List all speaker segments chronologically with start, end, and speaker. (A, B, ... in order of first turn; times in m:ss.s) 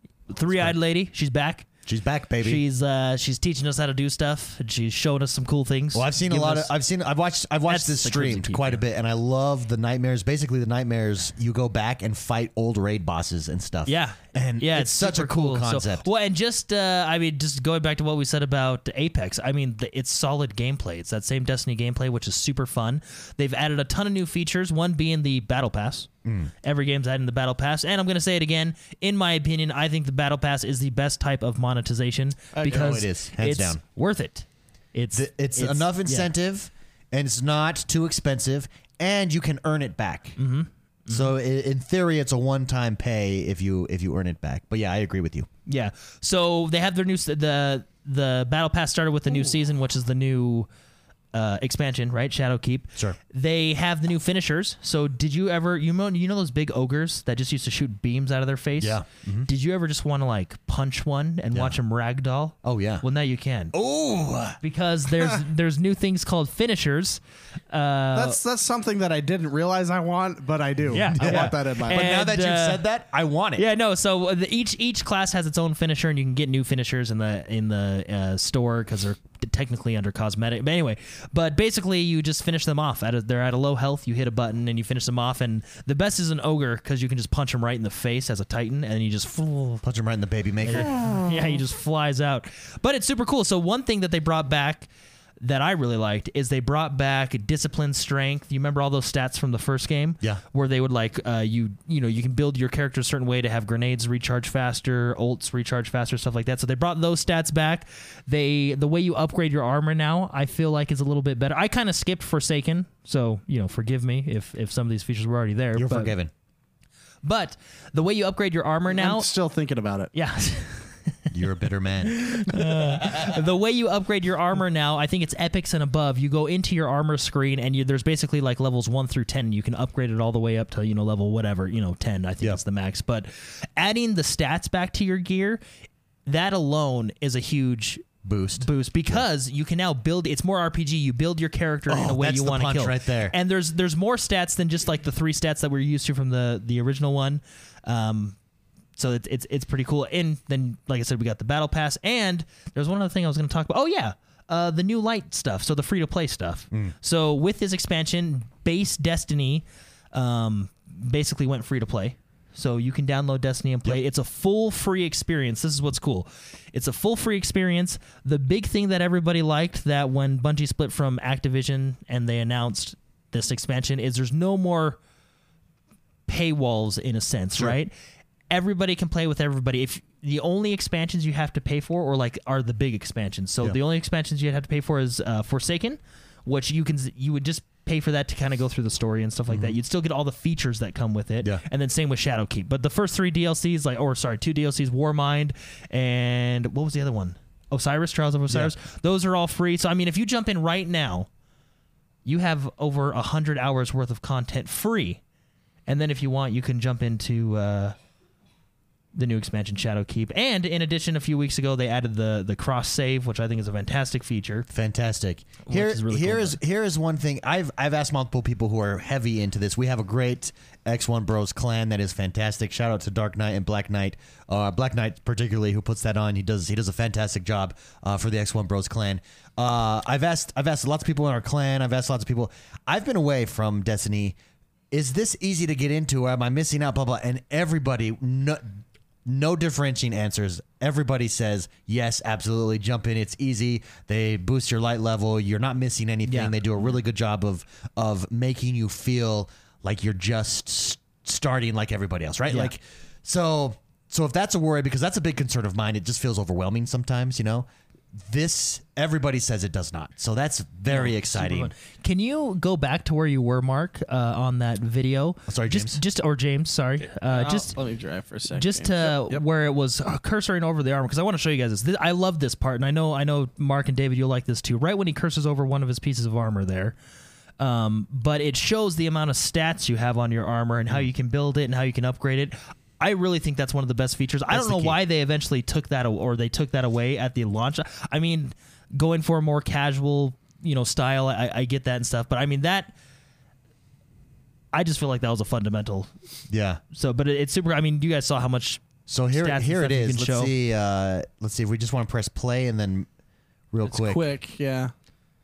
0:00.3-0:01.7 A
0:00.5-0:00.7 B
0:01.8-0:02.6 B
0:02.4-0:06.7 A
0:05.9-0:16.0 B
0:07.7-0:08.8 A
0:13.8-0:26.1 A
0:26.2-0:26.5 B
0:26.6-0:36.3 A
0:32.5-0:33.0 C
0:32.6-0:33.8 B
0:35.1-0:40.4 B
0:40.4-0:41.3 A
0:41.1-0:45.5 B
0:45.6-0:50.7 A
0:51.3-1:03.7 A
0:58.8-0:59.5 B
1:02.6-1:03.0 B
1:03.7-1:04.6 B
1:04.6-1:08.4 A
1:08.1-1:12.1 C
1:10.9-1:12.8 A
1:11.1-1:13.6 B
1:13.6-1:29.8 A
1:29.8-1:31.5 B
1:30.6-1:34.9 A
1:35.4-1:56.1 A
1:55.8-1:56.3 B
1:57.2-1:59.3 A
1:58.9-2:00.1 C
2:00.1-2:01.3 A
2:01.3-2:03.2 B
2:02.0-2:15.6 A
2:16.2-2:18.0 A
2:18.2-2:19.2 B
2:18.6-2:28.4 A
2:21.9-2:23.3 B
2:29.0-2:55.0 A
2:56.3-2:57.9 A
2:58.5-3:21.3 A
3:09.5-3:09.8 B
3:22.2-3:25.2 A
3:25.9-3:27.9 A
3:29.1-3:34.6 A
3:34.7-3:54.4 B
3:35.6-3:36.6 A
3:54.9-3:58.6 B
3:59.2-4:17.6 B
4:06.3-4:06.9 A
4:18.2-4:21.7 B
4:20.9-4:27.8 A
4:25.5-4:26.0 B
4:27.3-4:29.4 C
4:28.5-4:37.0 A
4:37.6-4:52.9 A
4:44.5-4:45.0 B
4:54.7-4:56.1 A
4:56.5-4:56.8 B
4:56.9-5:00.5 A
4:59.1-5:03.1 B
5:03.7-5:04.2 B
5:03.8-5:04.9 C